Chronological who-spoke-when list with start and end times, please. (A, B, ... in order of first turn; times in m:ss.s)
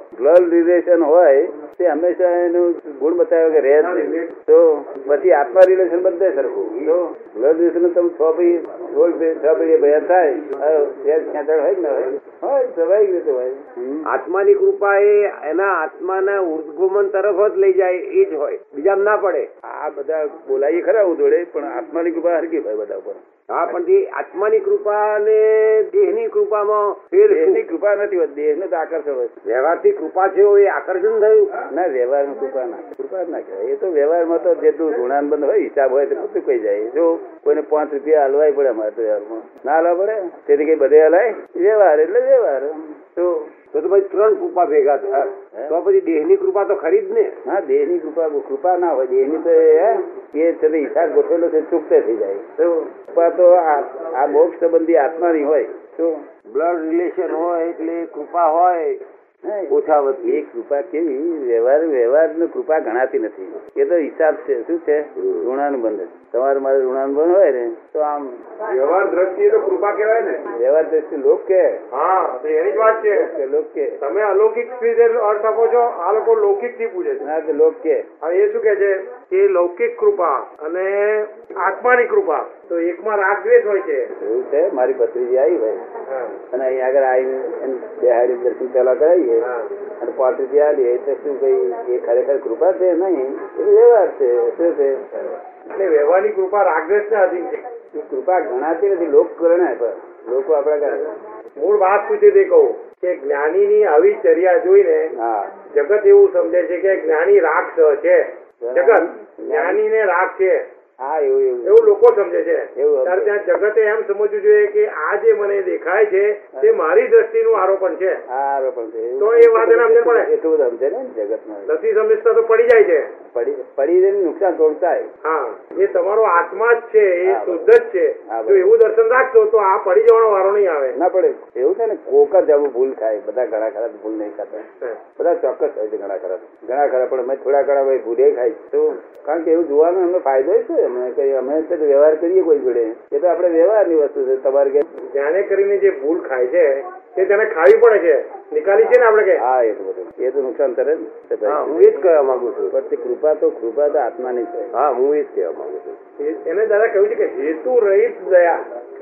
0:00.2-0:14.1 A
0:03.9-0:04.2 B
0:14.1-0:19.5 B
0:19.7-0:23.2 A
0:23.5-0:27.7 B
0:27.3-0:29.3 A
0:29.4-0:31.7 B
0:31.7-0:43.5 A
0:43.7-0:47.4 B
0:47.4-0:56.2 A
0:56.5-0:59.0 B
0:59.4-1:08.4 A
0:59.7-1:00.4 B
1:05.2-1:05.5 B
1:08.7-1:10.4 B
1:10.5-1:11.8 A
1:11.9-1:13.3 C
1:12.9-1:14.0 A
1:14.0-1:17.3 C
1:17.2-1:18.1 A
1:18.2-1:24.1 C
1:24.2-1:25.9 A
1:26.1-1:26.4 C
1:26.5-1:35.4 A
1:35.7-1:37.6 C
1:37.9-1:41.1 A
1:41.6-1:45.1 C
1:45.2-1:45.6 A
1:45.7-1:50.7 C
1:48.6-1:49.8 A
1:51.0-1:51.9 A
1:51.6-1:58.2 C
1:52.8-1:53.5 A
1:58.3-2:01.7 A
1:59.2-2:00.3 C
2:01.7-2:03.1 C
2:03.3-2:05.1 A
2:05.2-2:11.0 C
2:07.2-2:07.7 A
2:08.3-2:08.7 A
2:11.0-2:24.9 A
2:25.1-2:29.4 C
2:28.8-2:32.1 A
2:31.4-2:32.7 B
2:32.7-2:34.7 A
2:34.7-2:36.0 B
2:36.2-2:38.7 C